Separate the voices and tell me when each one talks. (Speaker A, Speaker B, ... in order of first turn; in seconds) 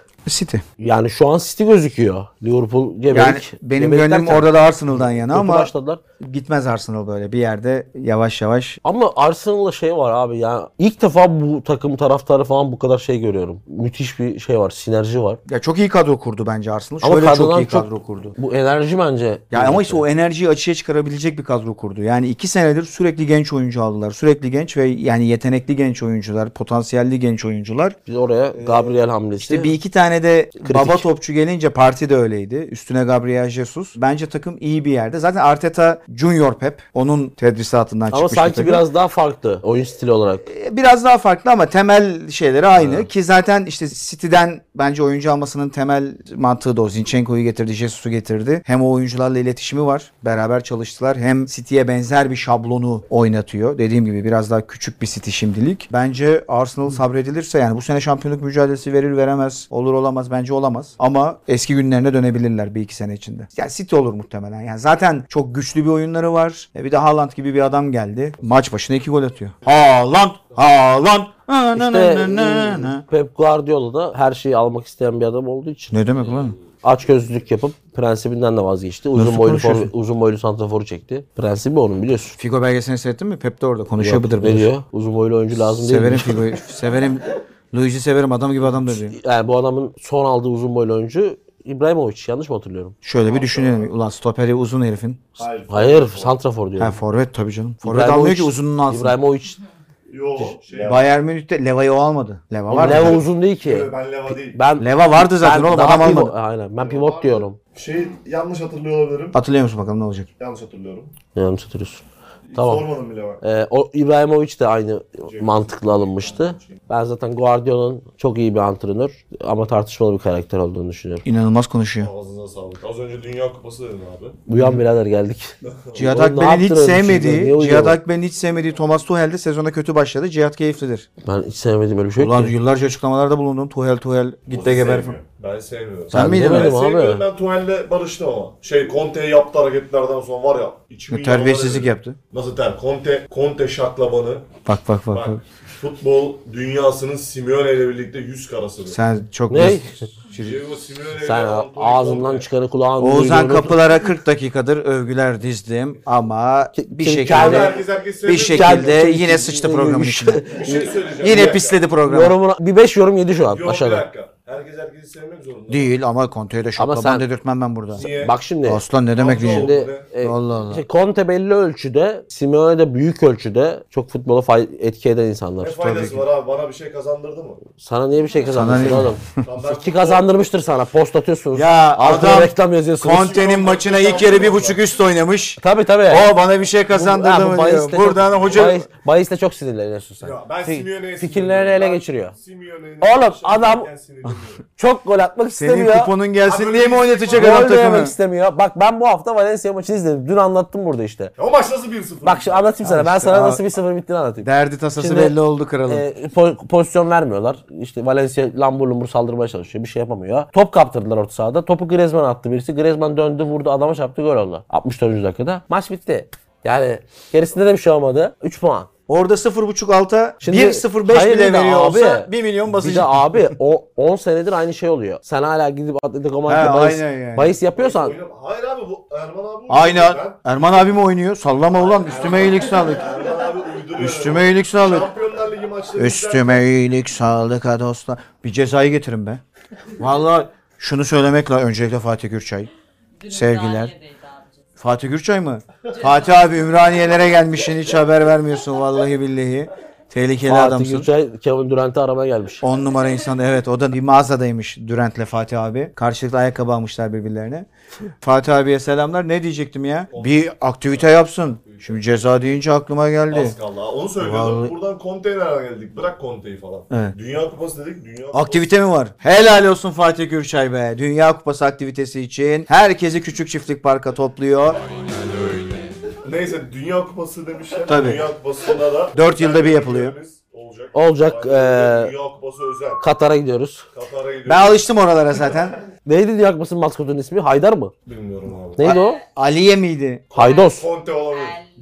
Speaker A: 0.2-0.6, 3.1-8.8, 15.5-18.3, 19.5-28.0, 28.5-38.8, 40.5-73.0, 75.9-76.5, 79.1-79.9, 82.4-84.7, 85.6-89.2, 93.0-95.4, 96.8-99.2, 100.8-103.2, 104.8-106.3, 109.3-110.3, 121.2-122.1, 124.5-124.8, 125.9-131.1, 132.2-135.2, 136.1-136.7, 141.1-142.2, 144.7-145.4, 148.9-150.6, 153.0-160.4, 161.2-162.4, 165.7-168.1, 168.6-170.8, 175.8-176.2, 178.5-179.3, 181.5-188.8, 195.6-198.1, 202.8-203.6, 204.4-206.0, 219.1-223.5, 226.5-227.6, 229.7-233.1, 234.0-235.1, 235.9-239.4, 240.0-242.7, 243.3-243.9, 244.8-251.1, 252.6-257.7, 258.2-263.6, 264.2-264.7, 268.3-274.8, 277.9-278.2, 279.1-280.1, 284.4-285.8, 288.8-290.2
Speaker B: 0.8-6.0, 8.8-15.4, 17.0-20.0, 28.1-29.7, 30.6-31.1, 38.1-40.5, 42.8-43.1, 71.7-76.0, 76.8-82.4, 84.0-86.5, 88.8-92.9, 95.7-97.0, 97.8-99.6, 102.7-107.6, 111.3-112.0, 112.5-112.8, 113.4-121.2, 124.5-128.0, 131.2-132.5, 136.1-137.2, 149.5-150.0, 151.2-153.8, 156.8-157.8, 158.3-161.1, 162.0-164.1, 166.8-167.2, 167.9-168.8, 169.4-175.8, 177.8-183.4, 185.6-186.3, 186.9-192.3, 193.0-193.9, 194.8-196.1, 197.3-201.3, 202.2-218.9, 220.4-228.2, 250.4-252.6, 280.9-282.1, 283.0-283.8, 286.0-287.9, 288.8-289.2, 290.3-290.9
Speaker C: 93.2-93.9, 95.4-96.4, 100.1-101.1, 102.8-104.6, 106.8-109.4, 110.4-111.1, 112.5-113.4, 115.3-116.8, 122.0-124.4, 125.6-126.0, 134.5-144.5, 145.1-149.0, 150.3-152.5, 157.2-159.1, 160.4-161.8, 163.5-165.9, 167.9-168.4, 169.1-170.1, 175.6-177.6, 179.3-180.3, 183.1-184.9, 188.3-188.8, 190.2-194.6, 196.4-197.7, 201.4-202.8, 227.7-230.4, 231.8-236.7, 260.1-262.0, 263.3-268.7, 276.2-283.0, 283.9-284.9, 288.1-288.9, 290.3-291.6
Speaker D: 243.2-244.6, 245.9-246.7, 288.9-289.2, 290.4-291.7